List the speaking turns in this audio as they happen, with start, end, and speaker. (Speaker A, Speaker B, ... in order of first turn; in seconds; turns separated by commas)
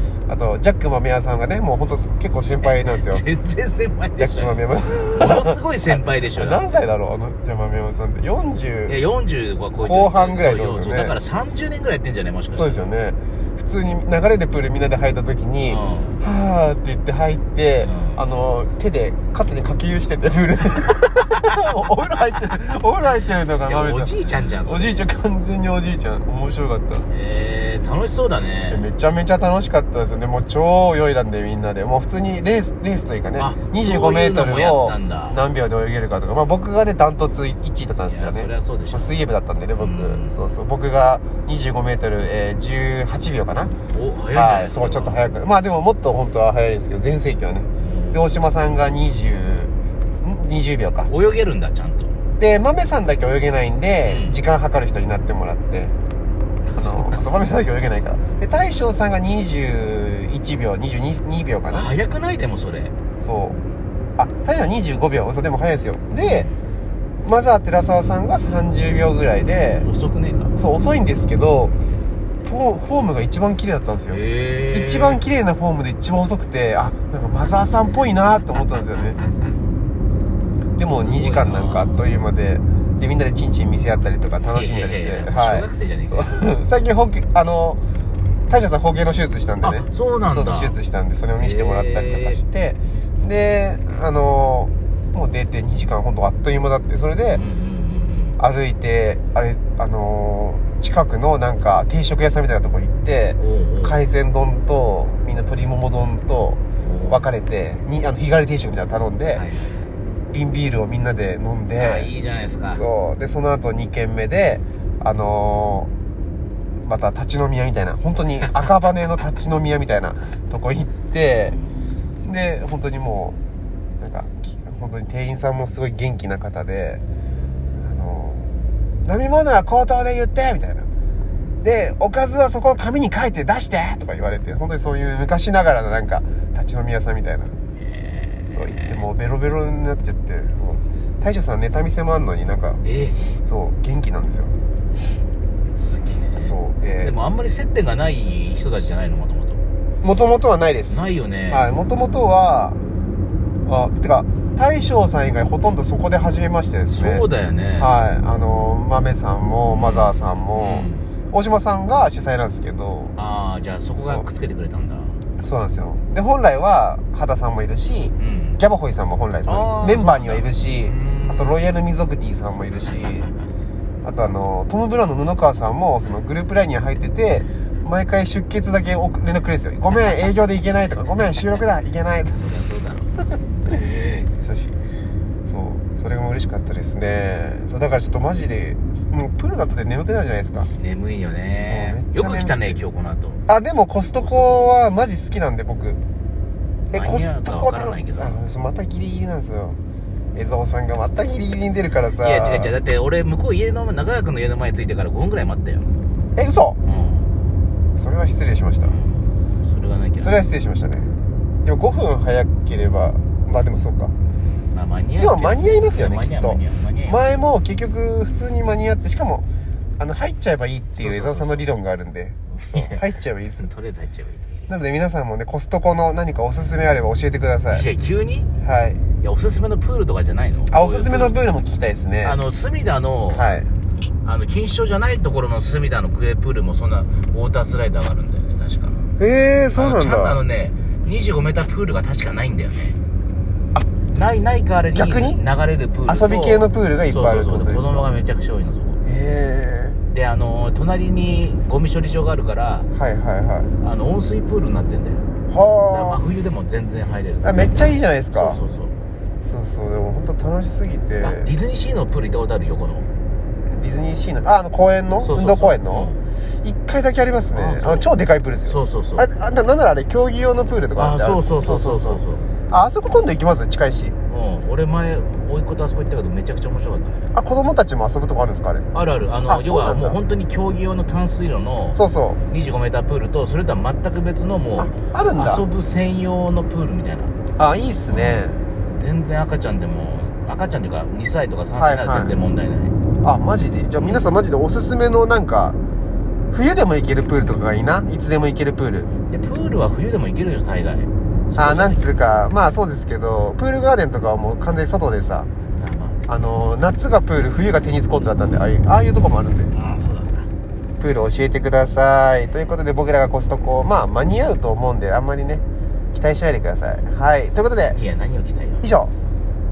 Speaker A: 0.3-3.3, Speaker B: 2.5-6.7, Speaker A: 4.2-5.6, Speaker A: 6.3-9.0, Speaker B: 8.9-12.8, Speaker A: 9.8-11.2, Speaker A: 12.5-27.1, Speaker B: 15.7-16.2, Speaker B: 17.8-18.2, Speaker B: 23.6-25.0, Speaker B: 27.1-28.8, Speaker A: 28.7-43.7, Speaker B: 33.4-35.4, Speaker B: 38.1-39.2, Speaker B: 39.8-40.4, Speaker B: 43.9-45.2, Speaker A: 44.3-51.1, Speaker B: 47.8-48.2, Speaker B: 51.1-52.1, Speaker A: 52.4-55.9, Speaker B: 54.0-54.4, Speaker B: 56.6-57.2, Speaker A: 56.7-61.9, Speaker B: 61.7-63.0, Speaker A: 63.2-63.6, Speaker A: 64.2-66.5, Speaker B: 66.2-66.6, Speaker A: 67.2-69.9, Speaker B: 69.8-70.5, Speaker A: 70.6-71.7, Speaker A: 72.5-79.2, Speaker B: 74.1-75.2, Speaker A: 80.8-87.8, Speaker B: 80.8-82.0, Speaker B: 84.5-86.4, Speaker A: 88.5-97.4, Speaker B: 89.6-90.8, Speaker B: 91.4-92.4, Speaker B: 97.3-98.4, Speaker A: 98.4-109.4, Speaker B: 103.4-104.0, Speaker B: 106.8-107.3, Speaker B: 109.3-109.8, Speaker A: 110.3-112.1, Speaker B: 111.8-112.8, Speaker A: 112.7-115.9, Speaker A: 116.8-121.6, Speaker A: 122.2-123.4, Speaker A: 124.0-127.0, Speaker A: 127.8-128.5, Speaker A: 129.1-130.9, Speaker A: 131.6-137.5, Speaker B: 137.8-139.0, Speaker A: 138.5-142.8, Speaker B: 142.8-143.3, Speaker A: 143.4-144.5, Speaker B: 145.8-149.6, Speaker A: 146.3-147.1, Speaker A: 150.0-152.8, Speaker B: 150.9-151.7, Speaker A: 153.7-157.3, Speaker B: 156.9-157.9, Speaker A: 157.8-163.2, Speaker B: 159.7-161.1, Speaker B: 163.2-165.2, Speaker A: 164.0-164.3, Speaker A: 165.4-173.3, Speaker B: 168.2-168.6, Speaker B: 169.5-171.6, Speaker A: 174.0-182.4, Speaker B: 182.3-183.1, Speaker A: 183.7-184.8, Speaker A: 185.5-190.7, Speaker B: 190.8-193.4, Speaker A: 191.6-192.8, Speaker A: 193.5-196.0, Speaker B: 194.2-194.7, Speaker B: 196.9-198.3, Speaker A: 196.9-199.8, Speaker A: 200.3-202.8, Speaker B: 202.2-205.9, Speaker A: 206.3-206.8, Speaker B: 206.8-207.3, Speaker A: 208.0-208.9, Speaker B: 208.8-210.3, Speaker A: 210.2-211.1, Speaker A: 211.6-214.1, Speaker B: 214.7-217.3, Speaker A: 215.2-219.4, Speaker A: 220.0-223.7, Speaker B: 221.0-221.7, Speaker B: 222.6-223.1, Speaker B: 223.6-224.6, Speaker A: 224.7-227.9, Speaker B: 227.7-228.5, Speaker A: 228.6-229.0, Speaker B: 229.2-231.5, Speaker A: 230.7-232.4, Speaker B: 232.2-233.5, Speaker A: 233.3-233.7, Speaker B: 234.2-239.1, Speaker A: 239.2-240.4, Speaker B: 239.8-242.9, Speaker B: 244.1-249.0, Speaker A: 244.9-245.4, Speaker A: 246.1-248.1, Speaker A: 249.1-250.0, Speaker B: 250.1-252.9, Speaker A: 252.9-253.7, Speaker B: 253.8-255.2, Speaker A: 255.5-256.2, Speaker B: 255.9-258.9, Speaker A: 257.4-258.6, Speaker A: 259.4-261.5, Speaker B: 261.2-263.1, Speaker A: 263.7-266.1, Speaker B: 265.2-266.2, Speaker A: 266.6-274.2, Speaker B: 267.5-268.1, Speaker B: 268.7-269.3, Speaker B: 270.9-272.5, Speaker B: 274.3-277.3, Speaker A: 277.3-278.9, Speaker B: 278.9-287.3, Speaker A: 279.5-280.2, Speaker A: 281.9-282.4, Speaker A: 284.8-285.7, Speaker A: 287.6-288.6, Speaker B: 288.1-292.9, Speaker A: 291.8-292.3, Speaker A: 293.2-295.8, Speaker B: 294.0-294.2, Speaker A: 296.5-299.1, Speaker B: 299.3-302.1, Speaker A: 301.6-305.5, Speaker B: 305.8-306.2, Speaker A: 306.3-309.8, Speaker B: 309.7-310.5, Speaker A: 311.0-318.0, Speaker B: 317.9-318.9, Speaker A: 318.8-319.1